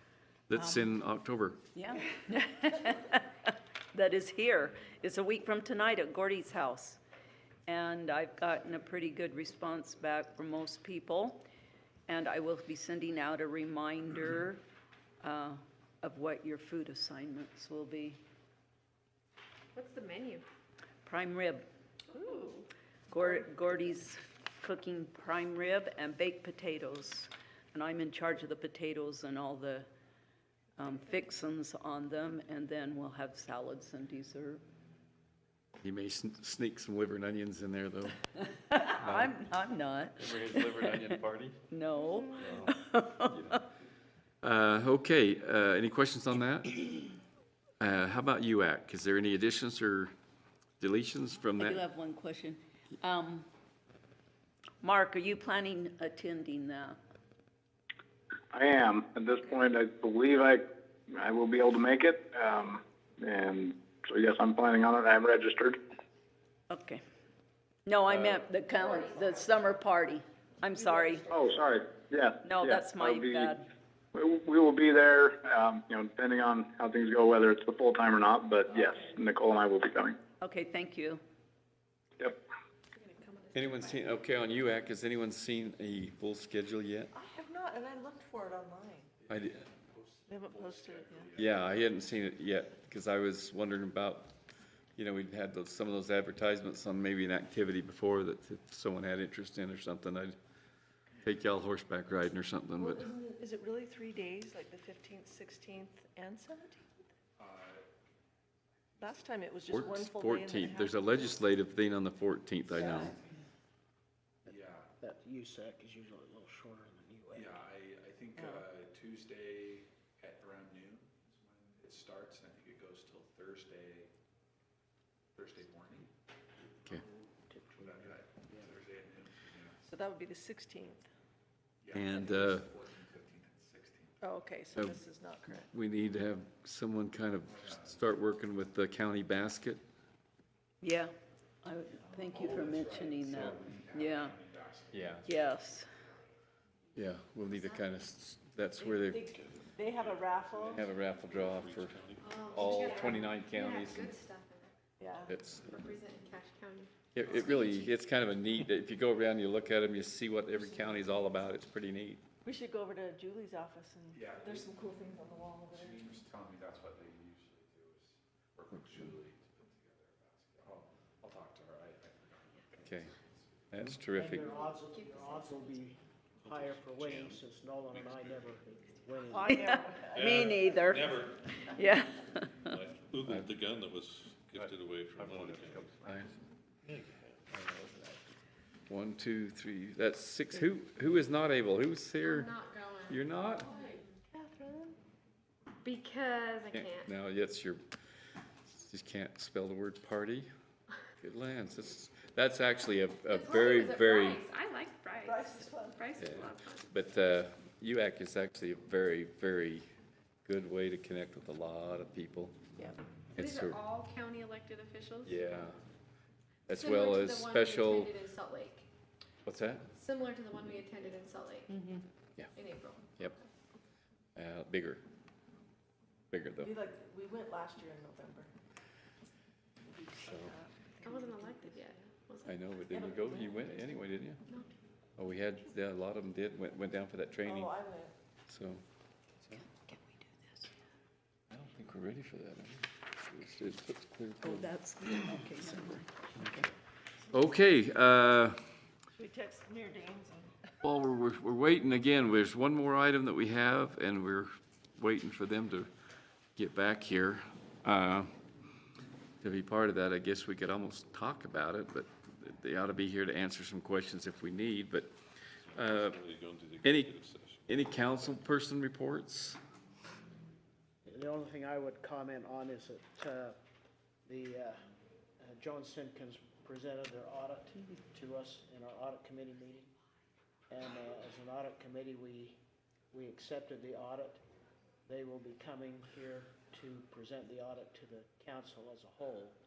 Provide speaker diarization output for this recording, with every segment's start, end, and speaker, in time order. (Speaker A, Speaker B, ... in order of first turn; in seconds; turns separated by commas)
Speaker A: 0.5-1.6, Speaker B: 0.6-0.8, Speaker B: 1.7-7.0, Speaker B: 7.7-11.4, Speaker B: 12.1-14.6, Speaker B: 15.2-18.2, Speaker C: 19.7-20.4, Speaker B: 21.0-21.6, Speaker C: 22.1-22.6, Speaker D: 22.2-22.4, Speaker B: 23.1-29.9, Speaker B: 30.8-34.6, Speaker A: 35.8-38.2, Speaker B: 38.7-41.2, Speaker A: 39.0-39.4, Speaker A: 40.2-41.6, Speaker B: 41.7-43.6, Speaker A: 42.4-42.7, Speaker A: 43.2-43.6, Speaker A: 44.4-46.8, Speaker A: 47.8-50.1, Speaker A: 50.8-51.8, Speaker B: 51.6-53.5, Speaker B: 54.8-57.0, Speaker E: 58.5-65.8, Speaker B: 66.7-67.0, Speaker B: 67.8-71.2, Speaker C: 68.7-69.5, Speaker D: 70.7-71.8, Speaker E: 71.3-73.5, Speaker B: 72.4-73.7, Speaker E: 74.1-80.2, Speaker D: 78.7-79.2, Speaker B: 80.4-81.2, Speaker C: 82.9-84.5, Speaker A: 83.5-87.1, Speaker D: 87.1-89.1, Speaker F: 89.2-92.4, Speaker A: 89.3-89.6, Speaker D: 90.3-91.3, Speaker A: 91.3-94.4, Speaker A: 94.9-100.4, Speaker A: 101.2-103.1, Speaker D: 102.8-107.1, Speaker F: 107.4-107.8, Speaker F: 108.9-109.5, Speaker D: 109.0-111.3, Speaker A: 109.7-113.2, Speaker D: 112.7-113.2, Speaker G: 114.4-117.7, Speaker F: 114.5-114.9, Speaker F: 117.3-124.1, Speaker D: 118.3-118.7, Speaker F: 125.3-126.1, Speaker G: 126.9-128.8, Speaker F: 127.7-129.8, Speaker D: 129.9-131.1, Speaker F: 131.8-134.4, Speaker A: 131.9-132.7, Speaker D: 134.2-135.7, Speaker A: 134.7-135.0, Speaker A: 135.7-139.8, Speaker F: 137.4-138.1, Speaker B: 140.8-141.1, Speaker B: 141.6-144.3, Speaker F: 142.0-145.6, Speaker A: 144.9-145.2, Speaker B: 145.2-145.9, Speaker A: 146.9-149.3, Speaker C: 147.3-147.9, Speaker D: 148.8-150.8, Speaker H: 149.3-152.7, Speaker A: 150.8-152.0, Speaker C: 152.1-157.1, Speaker A: 152.5-154.1, Speaker D: 155.0-155.3, Speaker A: 155.3-155.7, Speaker A: 157.1-162.2, Speaker D: 162.4-166.0, Speaker F: 164.1-164.9, Speaker F: 165.6-174.0, Speaker A: 172.8-173.1, Speaker A: 173.7-174.4, Speaker G: 173.9-179.9, Speaker C: 174.4-175.8, Speaker H: 176.4-177.4, Speaker H: 177.9-178.4, Speaker D: 179.2-180.4, Speaker B: 179.4-181.2, Speaker H: 180.1-186.0, Speaker B: 181.7-182.5, Speaker H: 186.8-187.4, Speaker A: 187.5-188.2, Speaker A: 188.9-192.5, Speaker C: 192.2-194.1, Speaker A: 193.1-193.7, Speaker D: 194.3-195.0, Speaker C: 195.8-197.1, Speaker A: 196.7-197.8, Speaker A: 198.6-200.5, Speaker A: 201.2-204.4, Speaker C: 203.2-206.9, Speaker D: 205.2-206.2, Speaker A: 206.2-212.6, Speaker A: 213.3-213.8, Speaker C: 213.3-215.4, Speaker A: 215.2-215.8, Speaker A: 216.7-218.2, Speaker C: 216.7-218.8, Speaker A: 219.4-219.9, Speaker C: 219.9-221.8, Speaker B: 221.7-222.0, Speaker C: 222.5-223.4, Speaker A: 224.3-225.0, Speaker A: 226.3-226.8, Speaker D: 226.6-228.5, Speaker D: 229.8-232.1, Speaker A: 230.2-230.5, Speaker C: 231.0-233.0, Speaker A: 232.4-234.4, Speaker D: 232.8-233.9, Speaker C: 234.5-234.7, Speaker A: 235.2-237.7, Speaker D: 237.4-238.1, Speaker A: 238.5-238.8, Speaker B: 239.6-240.7, Speaker A: 241.5-244.8, Speaker B: 244.4-246.7, Speaker A: 247.3-248.7, Speaker D: 249.1-250.6, Speaker A: 250.8-255.9, Speaker A: 256.5-258.3, Speaker A: 259.4-265.2, Speaker H: 265.6-268.3, Speaker A: 265.7-266.2, Speaker A: 266.8-267.1, Speaker A: 267.7-269.6, Speaker G: 271.1-273.6, Speaker G: 274.2-274.8, Speaker G: 275.4-279.9, Speaker G: 280.7-282.6, Speaker G: 283.1-284.4, Speaker G: 285.1-289.6